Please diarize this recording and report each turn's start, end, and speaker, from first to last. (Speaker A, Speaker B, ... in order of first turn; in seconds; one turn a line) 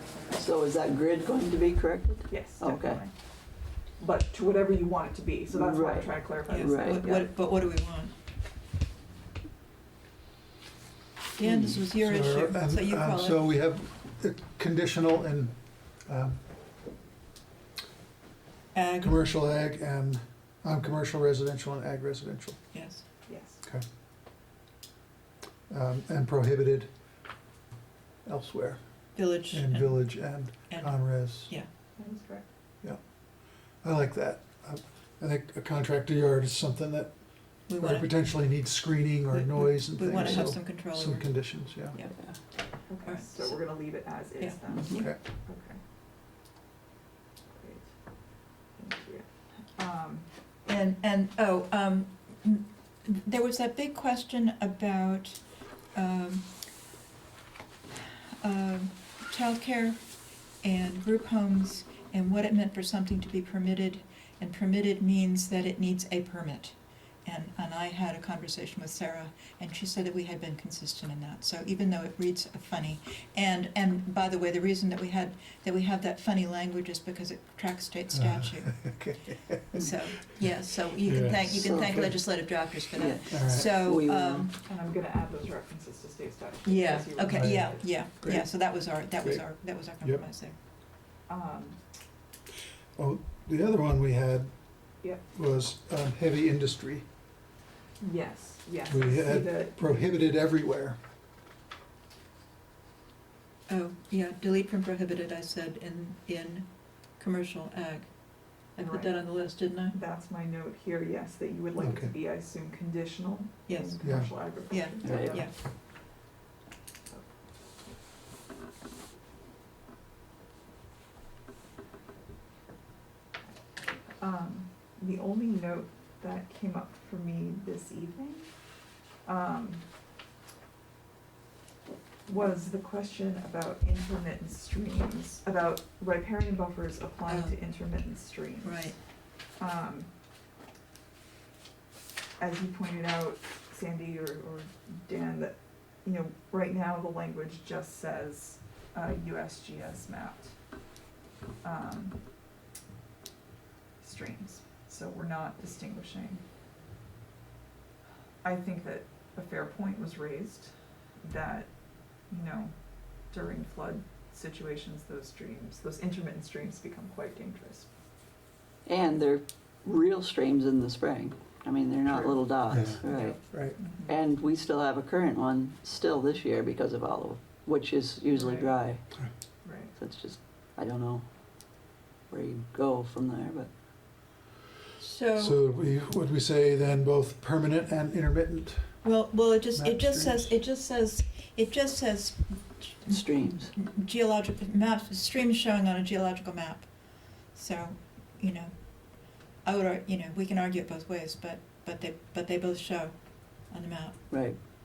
Speaker A: 0.3-3.0
Speaker B: 2.3-3.1
Speaker B: 4.0-7.3
Speaker A: 5.5-7.1
Speaker C: 6.5-8.1
Speaker C: 11.4-13.4
Speaker A: 11.4-11.8
Speaker D: 11.9-15.6
Speaker D: 16.1-16.4
Speaker C: 18.8-19.2
Speaker D: 19.0-22.6
Speaker C: 22.7-23.0
Speaker B: 23.3-23.6
Speaker D: 25.7-26.9
Speaker D: 28.2-28.8
Speaker C: 29.2-30.1
Speaker D: 29.5-31.5
Speaker C: 30.7-31.7
Speaker B: 32.0-32.5
Speaker D: 33.8-37.1
Speaker C: 37.7-38.1
Speaker D: 37.8-42.0
Speaker C: 39.3-42.2
Speaker A: 42.1-42.4
Speaker B: 42.9-45.8
Speaker C: 43.0-43.6
Speaker A: 44.7-45.1
Speaker D: 44.9-45.2
Speaker B: 47.5-47.9
Speaker B: 48.8-50.3
Speaker C: 50.7-55.4
Speaker C: 55.9-56.5
Speaker C: 58.0-60.0
Speaker C: 60.6-78.8
Speaker D: 78.1-80.0
Speaker C: 79.7-84.5
Speaker D: 81.0-82.2
Speaker A: 81.5-82.0
Speaker A: 83.0-84.5
Speaker D: 83.3-83.7
Speaker B: 84.5-87.8
Speaker C: 86.7-90.5
Speaker D: 87.3-90.2
Speaker B: 91.3-91.8
Speaker D: 93.0-94.5
Speaker D: 95.3-97.1
Speaker B: 98.0-100.0
Speaker D: 98.9-101.0
Speaker C: 103.7-108.1
Speaker C: 108.7-110.0
Speaker B: 108.8-109.3
Speaker B: 109.9-115.5
Speaker D: 111.8-112.1
Speaker C: 113.7-114.0
Speaker D: 114.0-114.3
Speaker C: 114.6-115.5
Speaker A: 115.0-115.4
Speaker B: 124.2-128.5
Speaker B: 129.2-129.8
Speaker B: 132.3-138.9
Speaker C: 137.3-137.6
Speaker C: 138.6-139.0
Speaker B: 139.6-140.1
Speaker B: 142.4-150.6
Speaker B: 151.6-152.2
Speaker B: 154.0-156.4
Speaker B: 158.4-161.7
Speaker B: 162.3-162.8
Speaker B: 163.3-167.9
Speaker A: 168.9-173.5
Speaker D: 172.1-173.8
Speaker B: 173.0-174.2
Speaker A: 174.0-179.0
Speaker B: 178.3-178.8
Speaker B: 179.6-179.9
Speaker A: 179.9-181.3
Speaker A: 182.3-183.7
Speaker C: 185.0-185.6
Speaker D: 185.4-189.0
Speaker C: 189.0-196.9
Speaker D: 189.8-190.4
Speaker A: 193.1-193.7
Speaker C: 197.5-204.3
Speaker A: 204.3-204.6